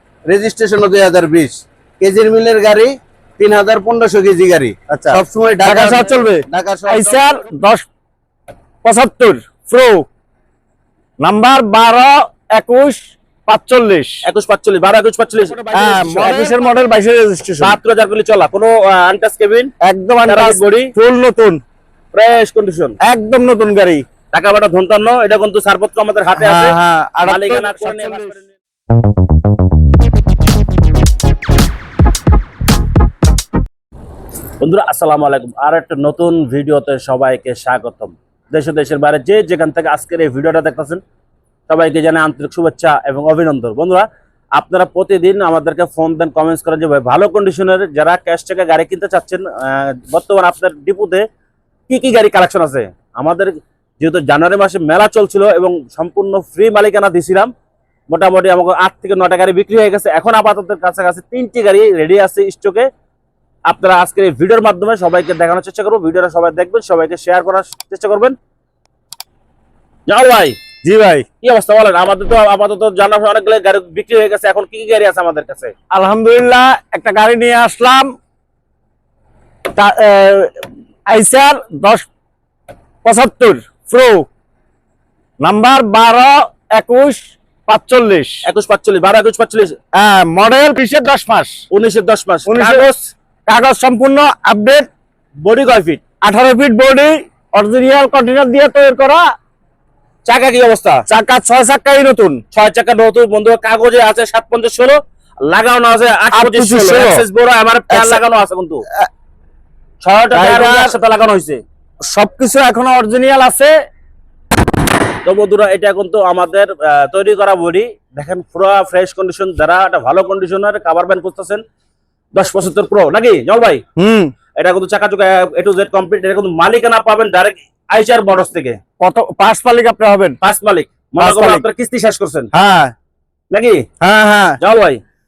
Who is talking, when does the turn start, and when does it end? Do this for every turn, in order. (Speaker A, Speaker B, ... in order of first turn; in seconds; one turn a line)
Speaker A: 0.3-7.4
Speaker B: 4.9-7.9
Speaker B: 8.8-10.1
Speaker B: 11.2-14.2
Speaker C: 14.2-16.6
Speaker B: 15.7-17.8
Speaker C: 17.6-19.7
Speaker B: 19.8-21.6
Speaker C: 20.3-20.9
Speaker C: 22.1-22.9
Speaker B: 23.0-24.0
Speaker C: 24.3-28.5
Speaker B: 26.4-28.3
Speaker C: 34.6-41.0
Speaker C: 41.7-51.3
Speaker C: 51.9-57.5
Speaker C: 58.1-62.9
Speaker C: 63.7-68.4
Speaker C: 70.1-70.6
Speaker B: 70.8-71.3
Speaker C: 71.4-75.7
Speaker B: 75.9-78.1
Speaker B: 79.8-82.1
Speaker B: 83.0-84.3
Speaker B: 85.4-88.5
Speaker C: 88.5-89.8
Speaker B: 90.0-91.6
Speaker C: 91.7-93.1
Speaker B: 92.5-92.9
Speaker B: 93.5-94.9
Speaker C: 95.4-96.0
Speaker B: 96.2-99.3
Speaker C: 100.3-101.0
Speaker B: 101.1-102.4
Speaker C: 102.5-108.8
Speaker B: 106.3-107.2
Speaker B: 107.9-108.2
Speaker C: 110.0-111.6
Speaker B: 110.3-110.9
Speaker B: 112.1-113.7
Speaker C: 115.2-121.6
Speaker C: 122.3-123.8
Speaker B: 124.0-124.3
Speaker C: 124.6-128.8
Speaker B: 129.0-130.4
Speaker C: 130.4-132.5
Speaker B: 131.2-131.6
Speaker B: 132.5-132.9
Speaker C: 133.5-133.8
Speaker B: 134.0-134.6
Speaker C: 134.6-135.0